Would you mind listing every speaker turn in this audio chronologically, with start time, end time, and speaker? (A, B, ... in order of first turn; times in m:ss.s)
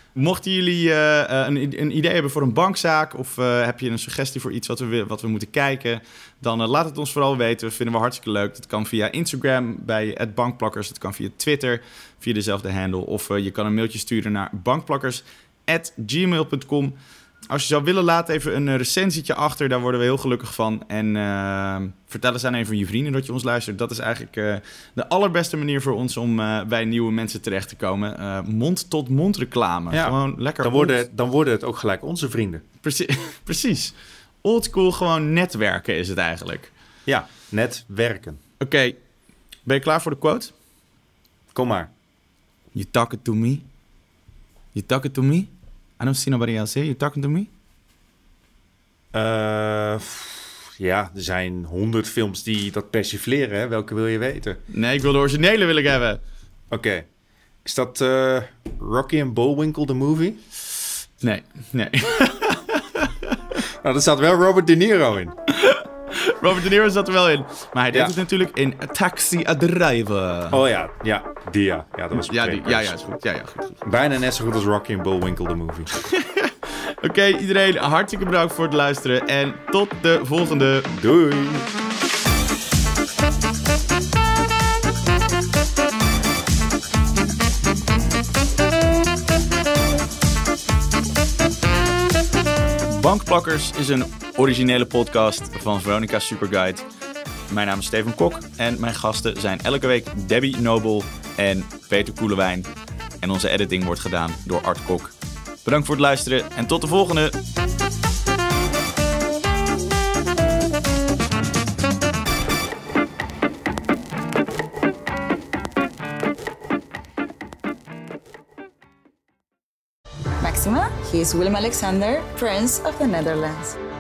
0:00.2-0:17.0 A
0:17.5-0:31.0 A
0:29.9-0:32.6 B
0:32.8-0:36.7 A
0:37.1-0:38.4 B
0:38.6-0:39.0 A
0:39.7-0:40.5 A
0:41.5-0:41.9 B
0:42.7-0:43.6 A
0:44.8-0:47.5 A
0:49.1-0:54.6 B
0:54.7-0:56.2 A
0:56.7-0:57.1 B
0:57.6-1:00.4 B
1:01.2-1:03.4 A
1:03.7-1:05.4 B
1:05.5-1:10.6 A
1:10.5-1:13.0 B
1:12.2-1:13.8 A
1:13.8-1:15.9 B
1:16.0-1:20.9 A
1:20.9-1:21.7 B
1:32.9-1:36.8 A
1:37.5-1:42.7 A
1:43.2-1:47.4 A
2:00.4-2:03.8 C